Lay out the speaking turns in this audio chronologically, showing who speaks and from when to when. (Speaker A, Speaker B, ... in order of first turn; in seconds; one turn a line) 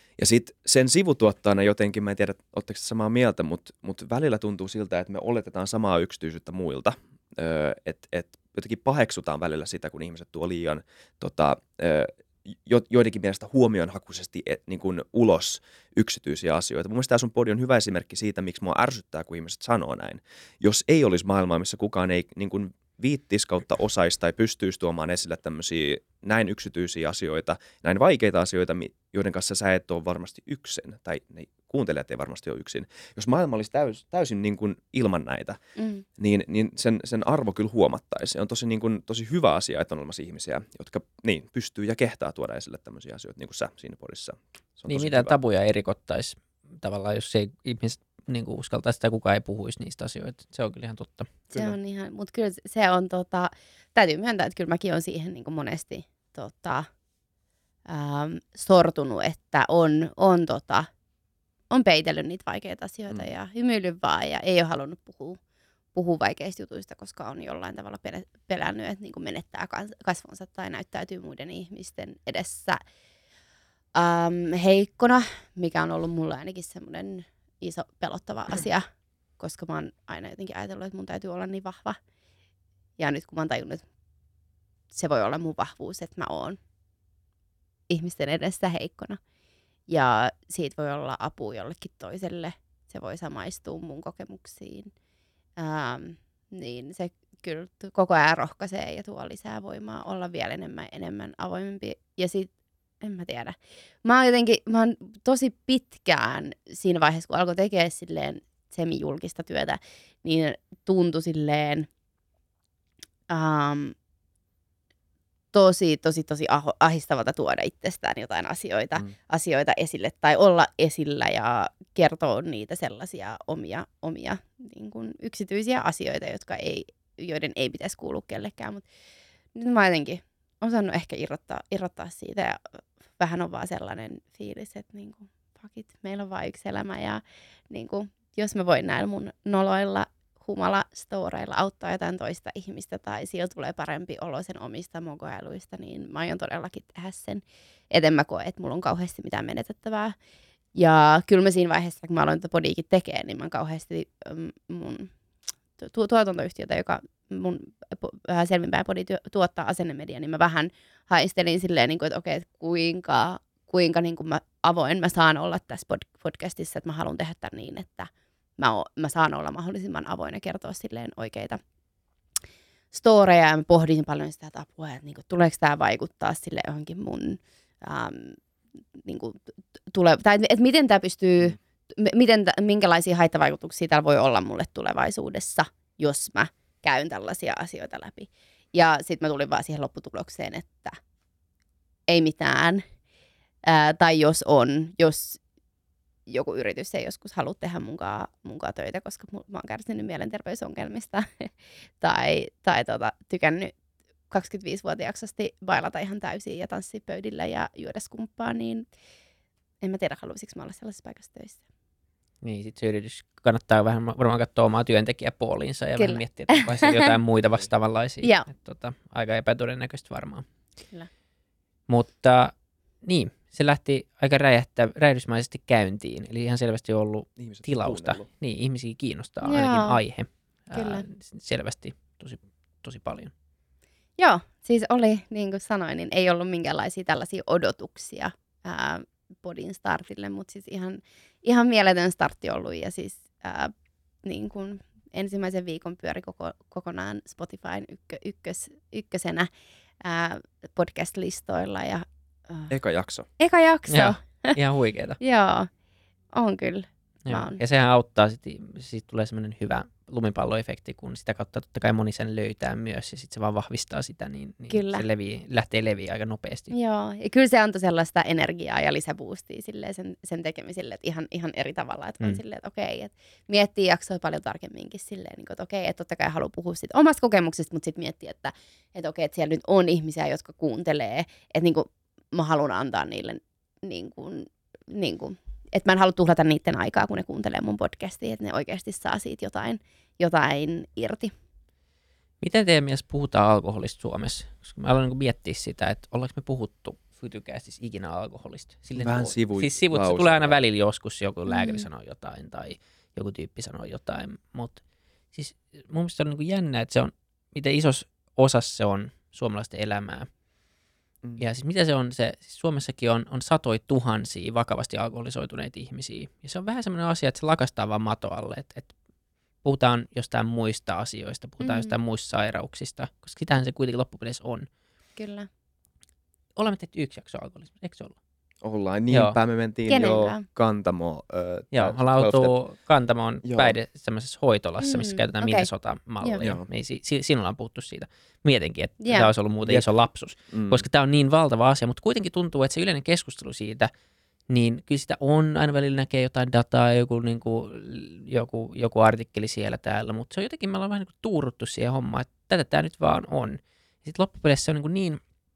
Speaker A: 0.2-35.6
Speaker B: 35.8-36.0
Speaker A: 36.2-45.4
Speaker C: 44.9-51.3
Speaker A: 51.5-51.8
Speaker B: 51.5-56.9
Speaker B: 57.9-60.9
Speaker B: 61.7-65.4
Speaker B: 65.9-72.8
Speaker B: 73.9-78.8
Speaker B: 79.4-82.0
Speaker B: 83.0-83.8
Speaker B: 84.9-86.6
Speaker B: 87.9-89.2
Speaker B: 89.9-94.9
Speaker B: 95.6-102.5
Speaker B: 103.0-111.9
Speaker B: 113.3-113.9
Speaker B: 115.5-128.8
Speaker B: 129.5-132.6
Speaker B: 133.2-150.2
Speaker B: 150.7-155.1
Speaker B: 155.8-171.6
Speaker B: 172.9-178.4
Speaker B: 179.0-191.0
Speaker B: 192.1-192.8
Speaker B: 193.6-195.4
Speaker B: 196.3-203.7
Speaker B: 204.3-208.8
Speaker B: 209.8-211.6
Speaker C: 212.4-220.4
Speaker B: 216.0-217.1
Speaker B: 218.2-218.5
Speaker C: 221.9-233.3
Speaker A: 227.4-228.2
Speaker B: 229.4-230.0
Speaker B: 230.7-231.0
Speaker B: 234.2-243.7
Speaker B: 244.2-249.5
Speaker B: 250.0-252.7
Speaker A: 252.7-253.3
Speaker B: 253.4-254.6
Speaker C: 253.9-255.2
Speaker B: 255.2-255.7
Speaker B: 256.3-257.6
Speaker C: 257.3-266.7
Speaker B: 264.7-265.1
Speaker B: 266.7-291.3
Speaker C: 292.4-304.8
Speaker A: 298.9-300.6
Speaker B: 301.5-301.8
Speaker C: 305.3-310.3
Speaker C: 311.4-318.9
Speaker C: 319.6-324.7
Speaker B: 321.6-321.9
Speaker B: 325.1-325.5
Speaker C: 326.6-328.2
Speaker A: 328.6-332.5
Speaker C: 329.1-329.4
Speaker B: 329.9-330.4
Speaker C: 331.7-343.9
Speaker A: 333.4-333.8
Speaker B: 334.8-335.7
Speaker A: 336.4-336.6
Speaker B: 339.0-339.3
Speaker A: 339.6-339.9
Speaker A: 340.5-340.8
Speaker C: 344.5-355.2